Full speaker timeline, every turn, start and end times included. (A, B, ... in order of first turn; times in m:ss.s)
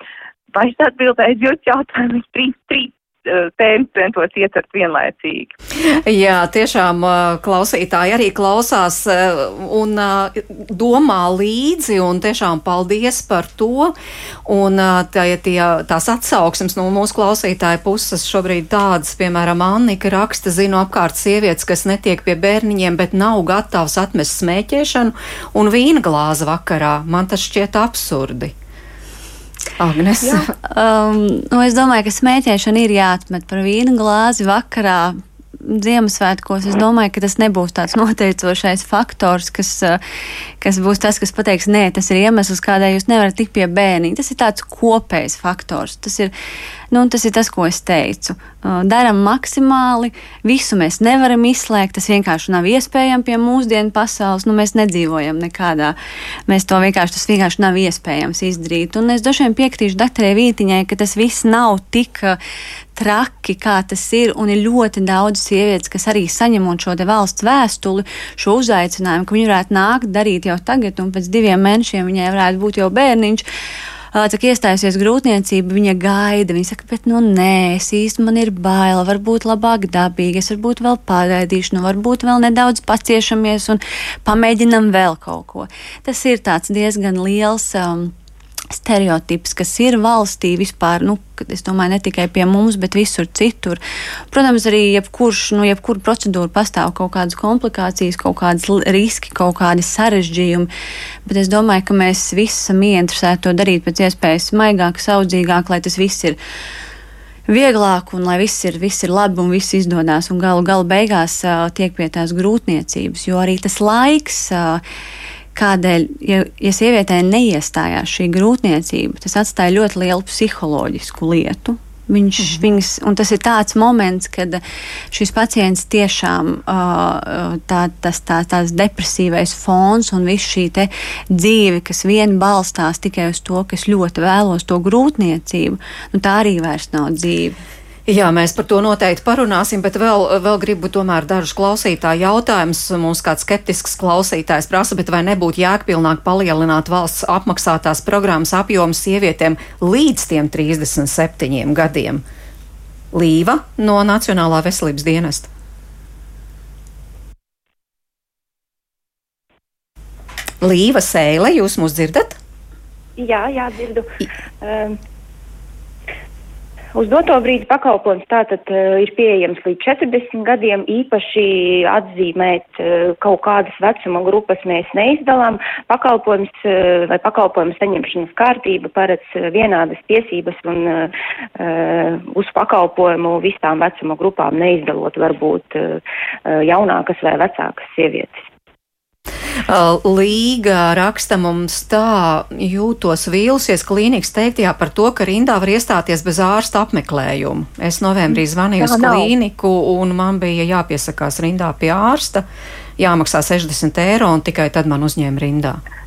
0:00.5-0:05.5 A
0:05.8-0:14.0 B
0:14.5-0:28.5 B
0:29.8-0:30.5 B
0:30.6-0:40.0 C
0:40.6-0:46.3 C
0:46.9-0:56.0 C
0:56.5-1:02.4 C
1:03.0-1:13.4 C
1:14.1-1:28.1 C
1:28.7-1:33.8 C
1:34.3-1:40.7 C
1:41.3-1:46.4 C
1:47.5-1:54.8 C
1:55.6-2:17.6 C
2:18.1-2:32.2 B
2:33.1-2:35.5 B
2:40.6-2:42.4 B
2:43.2-2:45.0 D
2:47.0-3:08.4 D
3:09.7-3:22.4 B
3:18.8-3:19.3 A
3:23.0-3:25.8 B